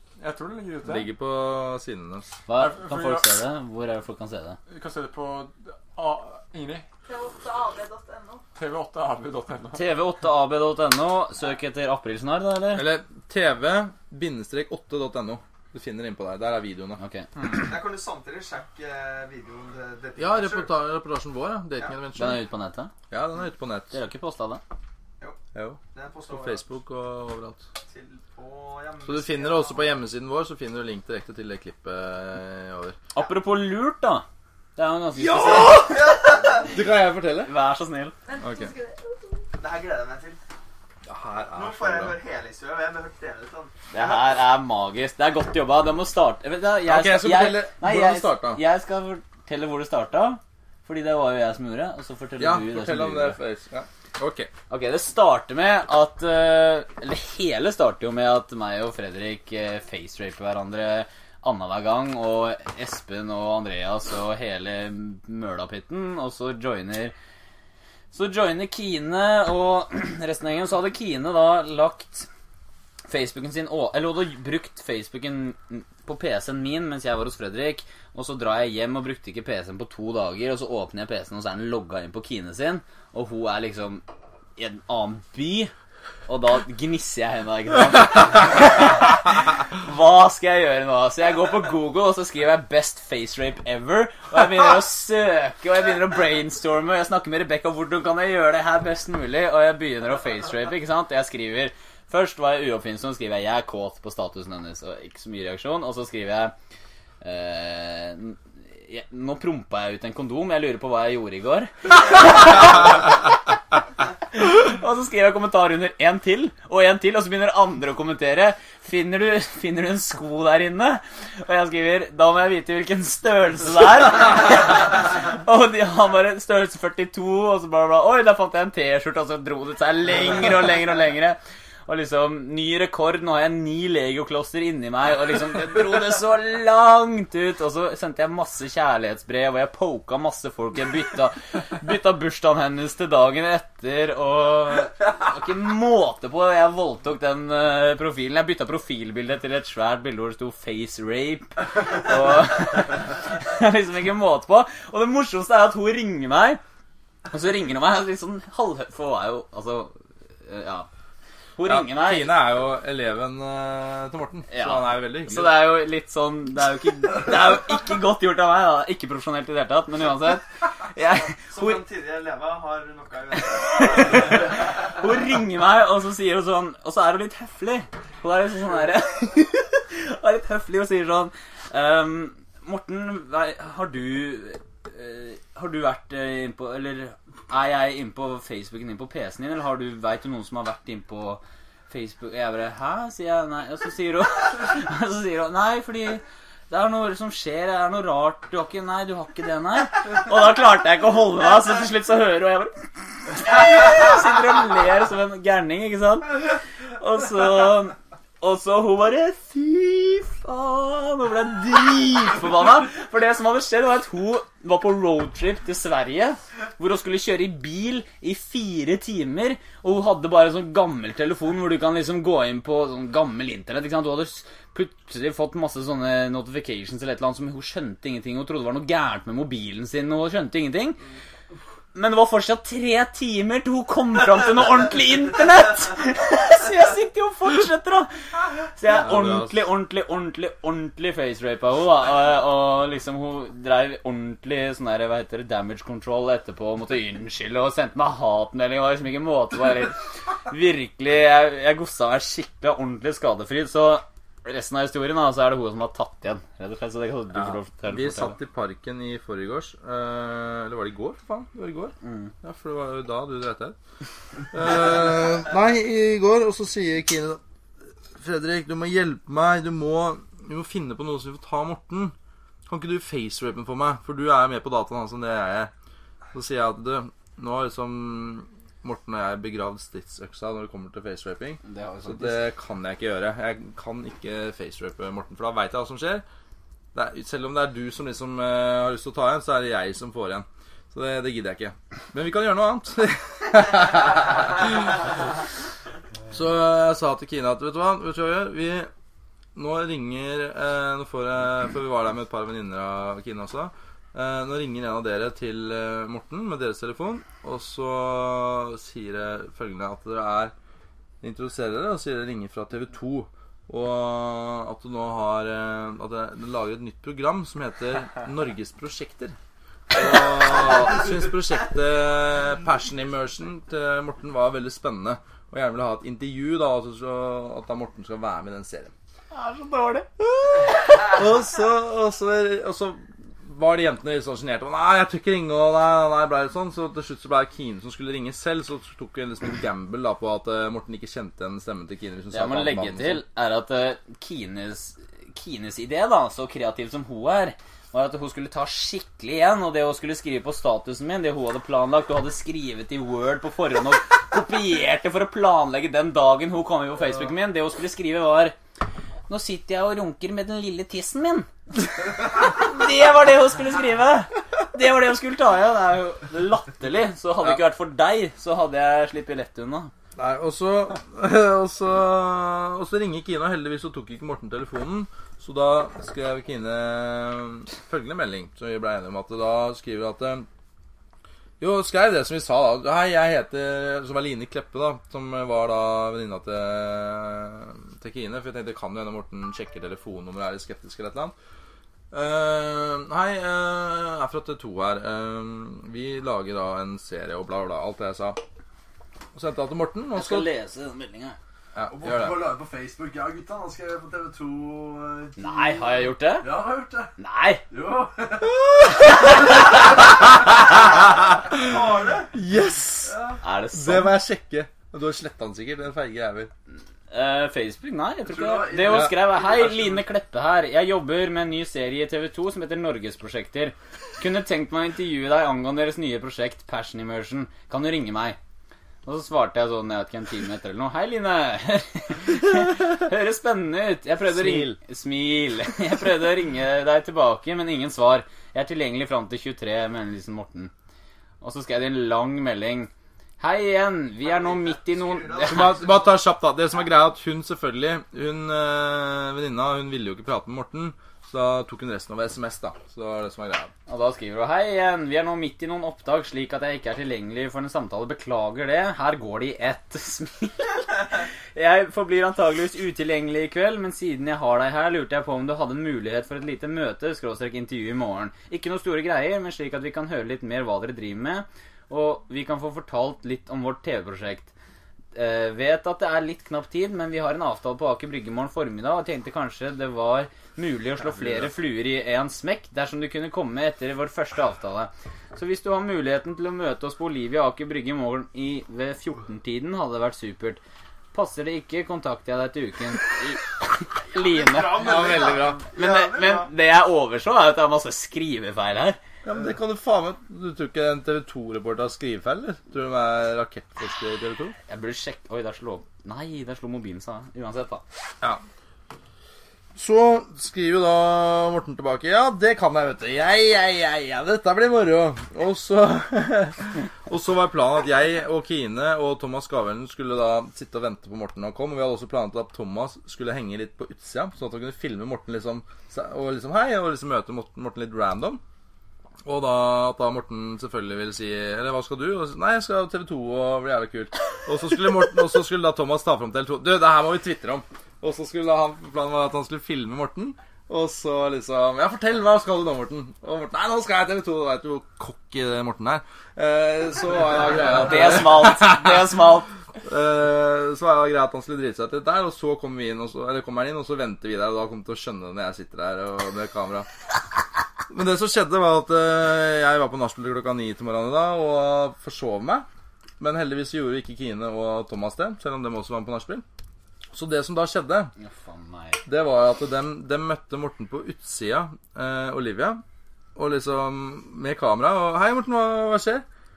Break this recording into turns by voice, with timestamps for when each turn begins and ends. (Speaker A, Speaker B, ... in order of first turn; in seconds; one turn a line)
Speaker A: 0.2-1.1
Speaker B: 0.8-2.3
Speaker C: 2.5-4.6
Speaker A: 2.6-3.3
Speaker A: 4.7-6.9
Speaker D: 7.0-8.4
Speaker A: 8.6-9.8
Speaker C: 9.7-12.9
Speaker B: 12.8-17.0
Speaker C: 17.0-17.3
Speaker A: 17.4-17.6
Speaker E: 17.4-20.7
Speaker B: 20.2-22.4
Speaker C: 22.1-22.9
Speaker B: 23.1-23.9
Speaker C: 23.9-24.6
Speaker B: 25.6-27.6
Speaker E: 25.9-26.6
Speaker E: 27.9-30.0
Speaker B: 29.0-33.0
Speaker C: 33.1-34.2
Speaker C: 34.8-36.1
Speaker E: 35.2-36.8
Speaker B: 36.6-37.5
Speaker C: 37.5-38.1
Speaker D: 38.3-39.5
Speaker B: 38.4-38.7
Speaker E: 39.6-40.4
Speaker B: 41.1-42.2
Speaker E: 41.5-44.3
Speaker C: 43.9-53.4
Speaker B: 46.9-48.6
Speaker B: 52.4-54.5
Speaker C: 54.7-67.1
Speaker C: 68.1-72.3
Speaker C: 73.1-84.0
Speaker C: 84.6-85.7
Speaker C: 86.3-106.5
Speaker C: 107.2-113.2
Speaker C: 114.3-156.6
Speaker C: 157.3-160.9
Speaker C: 161.6-162.3
Speaker B: 161.6-165.6
Speaker C: 164.5-171.8
Speaker E: 171.5-174.4
Speaker C: 173.5-231.0
Speaker C: 231.9-238.1
Speaker C: 238.7-258.4
Speaker B: 238.9-239.6
Speaker B: 257.3-263.8
Speaker C: 262.0-262.3
Speaker B: 264.5-267.4
Speaker B: 268.1-272.1
Speaker B: 272.7-275.7
Speaker B: 276.3-286.2
Speaker C: 281.6-282.5
Speaker B: 286.9-295.1
Speaker B: 296.3-298.9
Speaker B: 299.6-310.5
Speaker B: 311.2-319.4
Speaker B: 319.9-328.9
Speaker C: 329.3-330.1
Speaker B: 330.5-343.2
Speaker C: 342.3-358.6
Speaker C: 359.3-369.9
Speaker B: 370.2-380.5
Speaker B: 381.6-391.3
Speaker B: 392.1-398.4
Speaker B: 399.4-400.5
Speaker C: 400.1-401.4
Speaker B: 401.8-402.4
Speaker F: 401.9-405.9
Speaker C: 405.4-407.6
Speaker F: 406.4-407.1
Speaker F: 407.7-408.6
Speaker B: 411.5-411.8
Speaker E: 411.6-412.3
Speaker B: 412.3-413.2
Speaker F: 413.1-413.4
Speaker C: 413.4-414.2
Speaker B: 413.7-416.5
Speaker C: 417.1-428.4
Speaker F: 418.3-420.0
Speaker B: 418.9-419.1
Speaker C: 429.1-440.7
Speaker B: 434.3-434.8
Speaker C: 441.4-445.8
Speaker E: 444.2-446.1
Speaker B: 445.4-453.7
Speaker C: 453.9-460.9
Speaker C: 461.6-474.5
Speaker C: 475.1-490.6
Speaker B: 481.1-481.5
Speaker C: 491.1-499.0
Speaker E: 494.1-496.5
Speaker B: 494.9-495.5
Speaker B: 499.2-504.6
Speaker C: 504.7-507.8
Speaker B: 509.8-528.4
Speaker B: 529.2-549.1
Speaker C: 547.7-549.5
Speaker B: 549.8-556.9
Speaker B: 557.9-562.7
Speaker B: 563.2-566.4
Speaker B: 567.1-568.1
Speaker C: 568.2-569.0
Speaker B: 569.1-572.8
Speaker B: 573.4-576.2